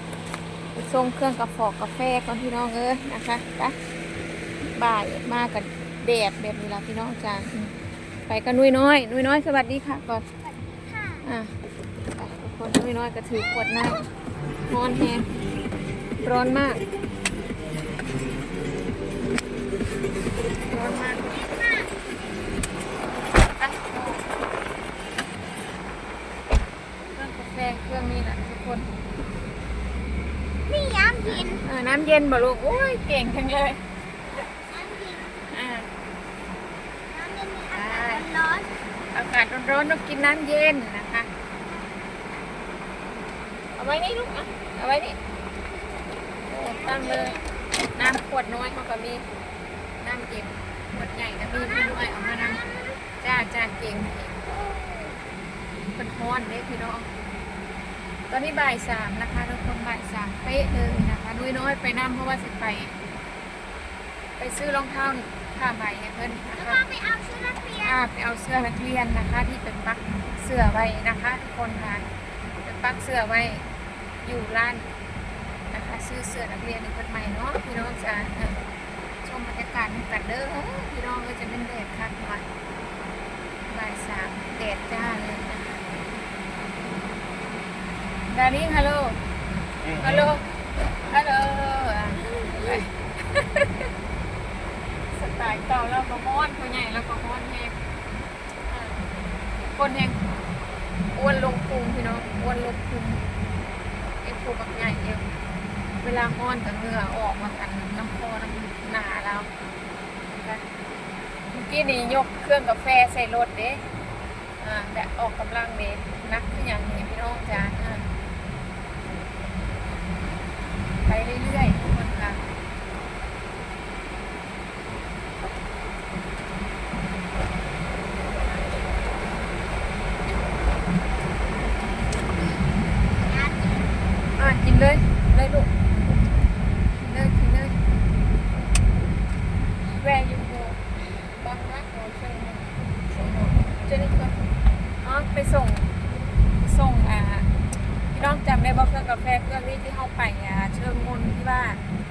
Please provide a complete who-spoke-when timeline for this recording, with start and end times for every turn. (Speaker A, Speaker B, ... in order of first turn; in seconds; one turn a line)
Speaker A: 0.8-3.8
Speaker A: 4.8-7.8
Speaker A: 8.3-10.3
Speaker B: 10.7-11.2
Speaker A: 11.2-11.5
Speaker A: 12.1-14.1
Speaker A: 14.7-15.3
Speaker A: 16.2-16.8
Speaker A: 20.7-21.4
Speaker B: 21.4-21.9
Speaker A: 23.6-24.2
Speaker A: 27.1-28.9
Speaker B: 30.7-31.6
Speaker A: 31.3-33.8
Speaker B: 34.7-35.4
Speaker A: 35.4-35.9
Speaker B: 37.1-38.7
Speaker A: 37.7-38.3
Speaker A: 39.1-41.3
Speaker A: 43.8-45.2
Speaker A: 46.5-47.4
Speaker A: 48.0-49.3
Speaker A: 50.0-55.1
Speaker B: 52.1-52.9
Speaker A: 56.0-57.1
Speaker A: 58.3-63.0
Speaker A: 64.4-66.8
Speaker B: 66.6-68.0
Speaker A: 67.8-72.1
Speaker A: 72.6-73.7
Speaker A: 74.2-74.9
Speaker A: 75.7-78.6
Speaker A: 79.2-82.5
Speaker A: 83.7-85.8
Speaker A: 88.3-89.2
Speaker A: 90.0-90.4
Speaker A: 91.0-93.9
Speaker A: 95.1-97.8
Speaker A: 98.7-99.0
Speaker A: 99.7-100.2
Speaker A: 101.2-103.2
Speaker A: 104.2-105.3
Speaker A: 106.0-109.5
Speaker A: 110.3-110.6
Speaker A: 111.5-113.8
Speaker A: 114.6-118.1
Speaker A: 121.1-122.4
Speaker B: 133.2-133.9
Speaker A: 134.3-135.7
Speaker A: 137.0-137.8
Speaker A: 139.8-144.4
Speaker A: 145.0-145.9
Speaker A: 146.6-147.5
Speaker A: 148.1-151.8